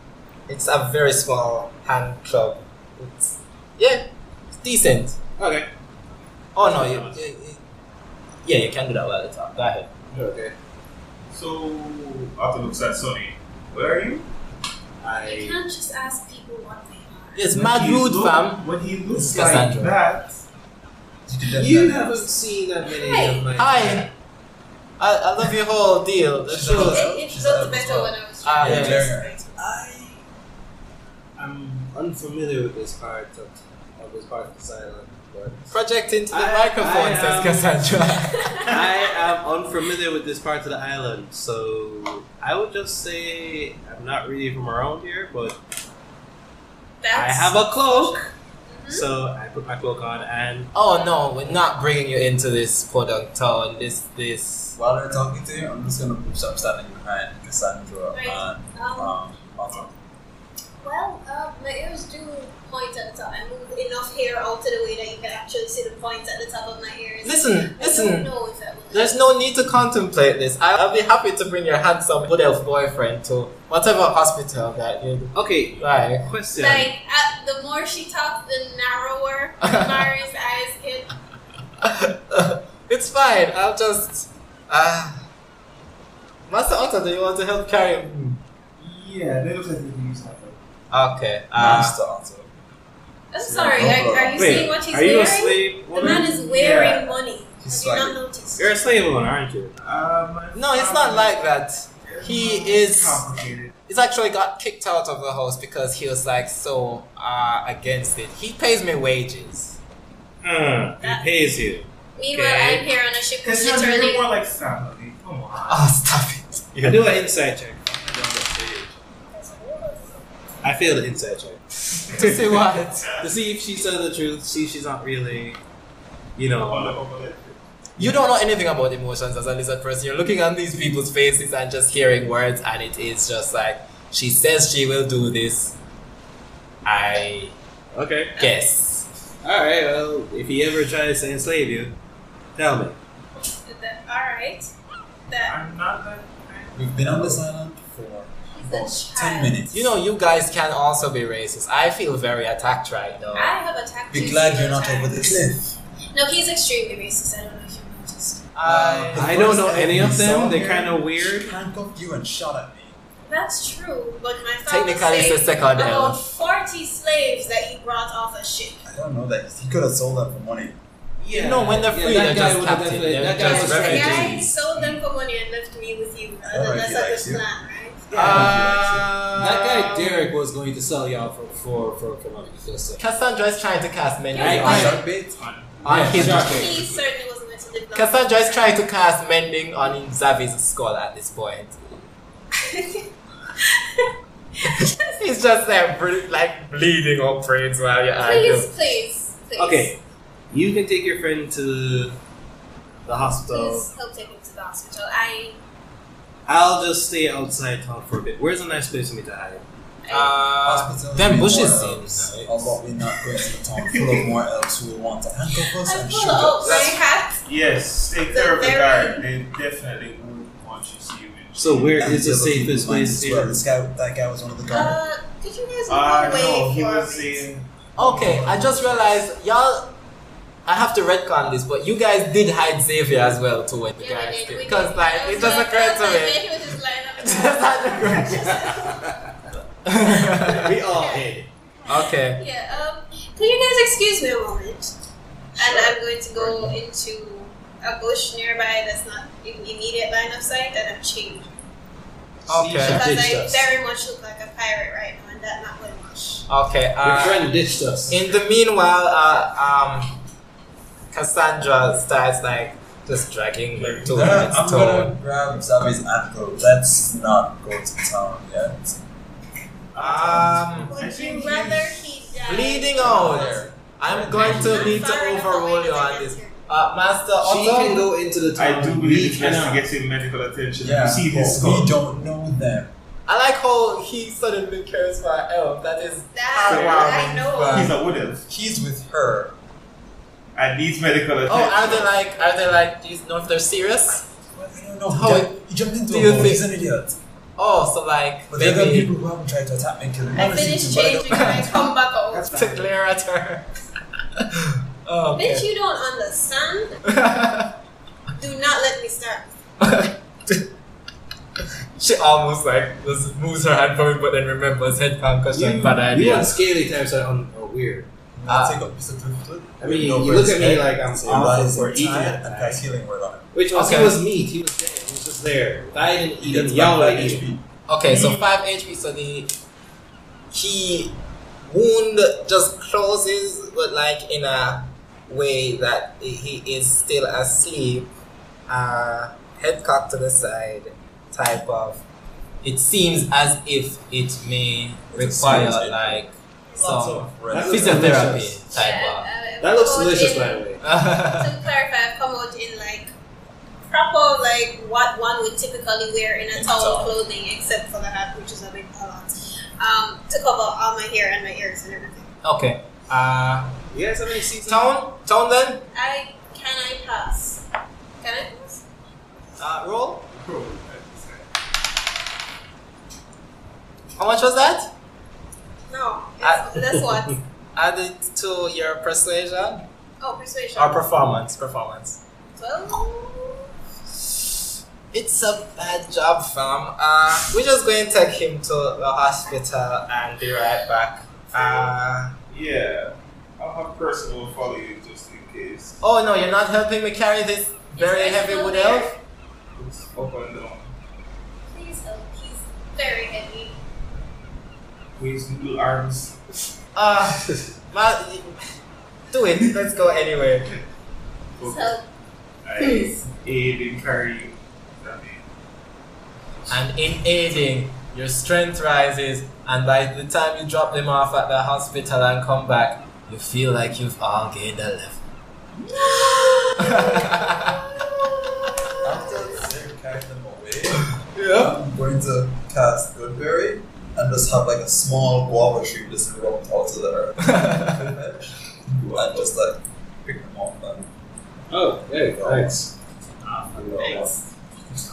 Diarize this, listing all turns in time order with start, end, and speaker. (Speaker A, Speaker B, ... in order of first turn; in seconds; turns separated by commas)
Speaker A: 0.5-4.1, Speaker A: 4.6-5.2, Speaker B: 5.4-5.7, Speaker A: 6.5-7.6, Speaker B: 6.6-7.3, Speaker A: 8.4-9.9, Speaker B: 10.1-10.5, Speaker C: 11.3-14.3, Speaker B: 15.0-15.6, Speaker D: 15.2-17.5, Speaker A: 17.4-20.0, Speaker C: 17.5-20.4, Speaker E: 21.3-22.3, Speaker B: 21.5-24.1, Speaker D: 22.8-23.5, Speaker A: 23.6-24.1, Speaker A: 25.0-29.1, Speaker E: 26.4-30.2, Speaker D: 26.6-29.4, Speaker B: 31.4-35.7, Speaker A: 35.7-38.7, Speaker B: 36.3-37.8, Speaker D: 38.2-38.9, Speaker B: 38.7-45.6, Speaker D: 47.0-49.1, Speaker B: 47.1-48.3, Speaker B: 48.9-50.7, Speaker A: 50.7-54.8, Speaker E: 54.8-60.0, Speaker D: 58.1-59.2, Speaker D: 60.8-69.2, Speaker A: 67.2-68.3, Speaker A: 68.9-76.3, Speaker B: 75.3-76.9, Speaker D: 76.6-81.1, Speaker A: 81.8-85.3, Speaker A: 86.5-88.4, Speaker C: 88.8-90.6, Speaker A: 90.9-92.0, Speaker E: 91.6-92.5, Speaker D: 93.3-98.8, Speaker E: 93.4-94.8, Speaker B: 94.4-96.4, Speaker C: 96.0-97.2, Speaker E: 97.6-98.2, Speaker B: 98.6-99.8, Speaker C: 99.8-101.5, Speaker A: 100.5-103.3, Speaker C: 102.0-103.8, Speaker A: 103.9-109.8, Speaker B: 110.4-111.9, Speaker D: 111.0-111.3, Speaker D: 112.2-114.3, Speaker A: 112.3-112.8, Speaker C: 113.4-115.9, Speaker A: 115.7-117.2, Speaker B: 116.8-118.5, Speaker E: 117.9-118.9, Speaker D: 119.3-120.6, Speaker B: 120.6-121.6, Speaker C: 122.0-123.3, Speaker A: 122.1-123.1, Speaker B: 123.2-125.6, Speaker B: 126.4-127.0, Speaker C: 126.5-127.6, Speaker A: 128.0-135.8, Speaker A: 136.8-137.6, Speaker B: 137.9-138.4, Speaker A: 138.4-139.1, Speaker B: 139.4-142.0, Speaker B: 142.6-143.0, Speaker D: 143.4-144.7, Speaker D: 145.3-145.6, Speaker C: 145.4-147.4, Speaker E: 146.7-149.8, Speaker D: 148.5-149.7, Speaker A: 149.7-153.5, Speaker D: 153.3-155.4, Speaker E: 154.1-155.8, Speaker D: 156.1-158.5, Speaker A: 158.6-160.0, Speaker E: 158.7-163.0, Speaker B: 159.1-161.6, Speaker D: 163.2-168.9, Speaker A: 164.7-166.2, Speaker E: 168.8-170.8, Speaker B: 171.2-174.6, Speaker A: 171.3-174.5, Speaker D: 173.4-178.1, Speaker E: 176.4-177.4, Speaker B: 178.1-178.6, Speaker E: 178.1-179.1, Speaker A: 178.1-180.3, Speaker B: 179.4-183.0, Speaker A: 183.0-185.1, Speaker D: 184.3-185.1, Speaker B: 184.4-186.9, Speaker E: 184.7-185.0, Speaker C: 185.3-187.0, Speaker A: 185.8-186.7, Speaker D: 186.4-188.8, Speaker A: 187.9-192.1, Speaker D: 192.5-195.1, Speaker A: 194.7-198.7, Speaker D: 198.1-199.9, Speaker B: 199.6-202.2, Speaker B: 203.1-203.9, Speaker D: 203.5-205.6, Speaker B: 206.5-209.7, Speaker D: 210.0-210.3, Speaker A: 210.1-212.8, Speaker E: 210.6-216.8, Speaker C: 213.9-214.3, Speaker D: 215.6-217.4, Speaker A: 216.6-217.0, Speaker C: 217.4-222.2, Speaker D: 218.3-219.3, Speaker B: 221.6-223.6, Speaker E: 222.0-225.0, Speaker D: 224.7-227.4, Speaker C: 225.9-227.8, Speaker A: 228.0-229.9, Speaker E: 228.0-229.2, Speaker A: 230.7-238.5, Speaker D: 234.0-239.1, Speaker B: 239.0-239.3, Speaker A: 239.8-240.7, Speaker B: 240.3-241.5, Speaker D: 240.9-241.3, Speaker A: 241.9-242.4, Speaker D: 242.3-244.9, Speaker D: 245.6-251.5, Speaker C: 245.6-246.6, Speaker B: 252.5-253.7, Speaker A: 252.5-253.1, Speaker D: 252.8-256.5, Speaker A: 256.5-257.6, Speaker B: 257.0-258.3, Speaker A: 258.1-260.2, Speaker A: 261.1-265.2, Speaker E: 263.8-269.0, Speaker C: 269.9-272.1, Speaker A: 270.0-271.0, Speaker D: 270.9-273.7, Speaker A: 272.5-278.1, Speaker E: 272.9-275.0, Speaker D: 274.3-276.6, Speaker B: 277.4-279.9, Speaker C: 278.6-282.0, Speaker E: 280.8-282.9, Speaker A: 283.3-288.0, Speaker D: 286.3-287.9, Speaker C: 286.6-288.5, Speaker E: 288.5-289.6, Speaker C: 290.6-292.1, Speaker A: 291.5-294.3, Speaker E: 294.5-297.2, Speaker A: 295.1-296.7, Speaker A: 297.6-299.1, Speaker E: 298.5-301.8, Speaker D: 300.3-302.5, Speaker A: 301.3-301.7, Speaker B: 302.3-302.9, Speaker A: 302.5-303.7, Speaker A: 304.4-305.7, Speaker D: 305.3-307.0, Speaker A: 307.1-307.8, Speaker D: 308.4-309.5, Speaker A: 309.8-310.7, Speaker A: 311.9-316.6, Speaker B: 315.5-318.1, Speaker E: 318.4-323.5, Speaker A: 318.5-318.9, Speaker B: 319.8-322.8, Speaker B: 323.5-327.4, Speaker A: 323.7-324.2, Speaker E: 326.4-327.7, Speaker A: 327.9-329.6, Speaker C: 328.1-328.5, Speaker A: 330.5-338.1, Speaker A: 338.7-342.0, Speaker A: 342.6-349.3, Speaker E: 345.1-348.4, Speaker B: 347.5-348.6, Speaker D: 348.7-350.7, Speaker B: 349.6-350.8, Speaker A: 350.8-351.6, Speaker D: 351.2-353.1, Speaker D: 353.9-362.3, Speaker E: 356.5-357.2, Speaker A: 362.4-363.8, Speaker B: 363.9-364.9, Speaker A: 364.6-365.9, Speaker D: 365.9-367.6, Speaker D: 368.2-368.8, Speaker A: 369.6-370.3, Speaker C: 370.3-371.5, Speaker A: 374.2-374.9, Speaker D: 375.9-377.4, Speaker A: 376.4-376.9, Speaker A: 377.8-379.9, Speaker D: 380.2-381.1, Speaker A: 380.8-382.2, Speaker D: 382.5-383.7, Speaker A: 385.1-392.4, Speaker D: 391.5-391.9, Speaker C: 392.5-396.0, Speaker A: 396.0-399.2, Speaker D: 397.9-399.2, Speaker C: 399.8-400.9, Speaker D: 401.7-403.8, Speaker C: 405.2-406.4, Speaker A: 406.9-408.6, Speaker A: 409.3-410.7, Speaker C: 411.6-412.0, Speaker D: 411.6-412.1, Speaker C: 412.6-415.4, Speaker D: 412.8-413.2, Speaker A: 416.7-425.2, Speaker D: 426.0-428.3, Speaker A: 426.0-429.0, Speaker D: 429.0-429.7, Speaker E: 429.0-441.1, Speaker A: 431.3-431.8, Speaker A: 437.5-438.0, Speaker C: 438.9-439.5, Speaker B: 441.7-442.9, Speaker E: 442.3-442.8, Speaker C: 443.4-444.3, Speaker B: 443.7-444.4, Speaker D: 444.0-444.3